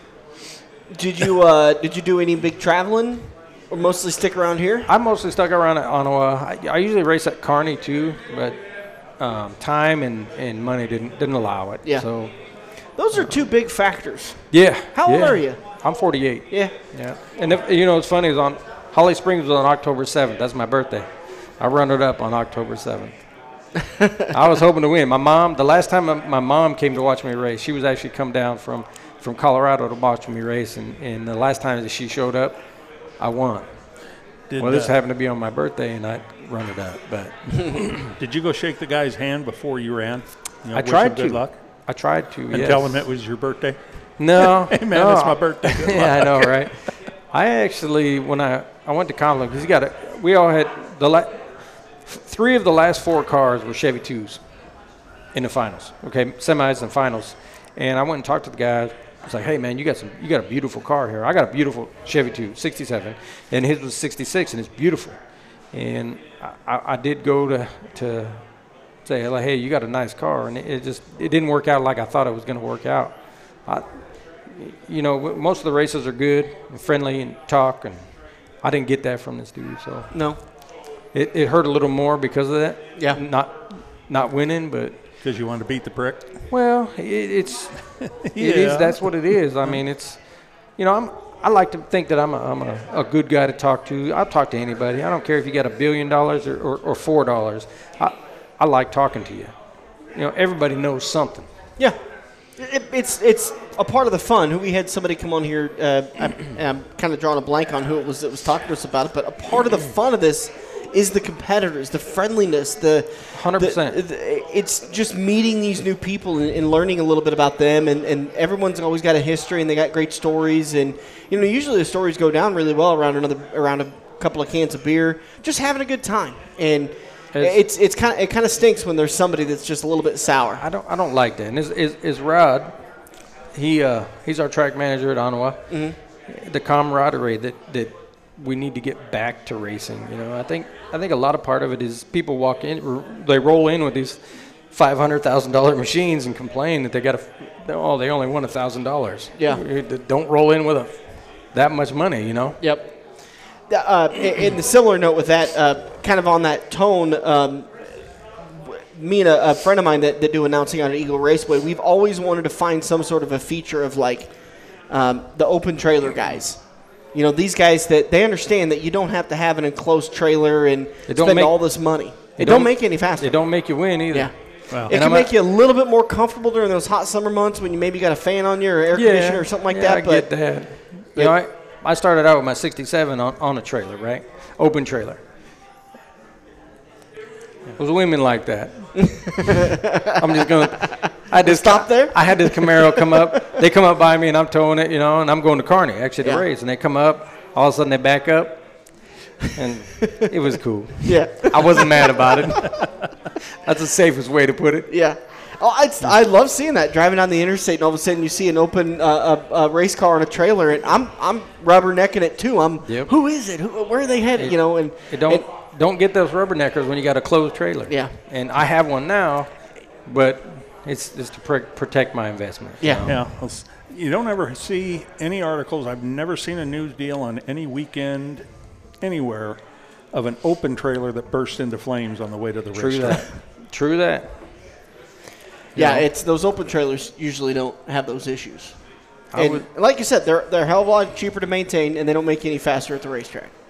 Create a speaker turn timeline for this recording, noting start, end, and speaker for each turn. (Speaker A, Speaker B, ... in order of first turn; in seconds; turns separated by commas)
Speaker A: 0.9-4.9, Speaker B: 4.9-13.6, Speaker A: 11.8-16.7, Speaker B: 14.5-23.2, Speaker B: 24.3-38.2, Speaker C: 34.5-34.9, Speaker C: 38.2-47.0, Speaker B: 40.7-43.3, Speaker B: 44.2-54.8, Speaker B: 55.3-80.6, Speaker A: 80.1-80.4, Speaker B: 81.1-85.1, Speaker A: 82.9-83.2, Speaker C: 85.2-86.4, Speaker B: 86.5-101.5, Speaker C: 87.8-89.8, Speaker A: 101.8-130.6, Speaker B: 113.3-114.0, Speaker B: 127.3-127.6, Speaker B: 130.6-132.8, Speaker B: 133.5-152.7, Speaker A: 135.7-135.9, Speaker A: 149.3-149.6, Speaker A: 152.6-158.2, Speaker A: 158.7-181.3, Speaker B: 171.1-175.3, Speaker B: 178.9-185.2, Speaker B: 187.8-189.6, Speaker B: 190.2-203.0, Speaker A: 190.9-193.5, Speaker A: 201.0-202.6, Speaker B: 203.7-205.1, Speaker A: 204.9-215.4, Speaker B: 212.8-213.1, Speaker B: 214.4-223.3, Speaker A: 217.9-218.1, Speaker A: 222.8-223.1, Speaker C: 223.0-233.3, Speaker B: 232.7-234.5, Speaker B: 235.8-236.1, Speaker A: 235.8-243.5, Speaker B: 239.3-239.7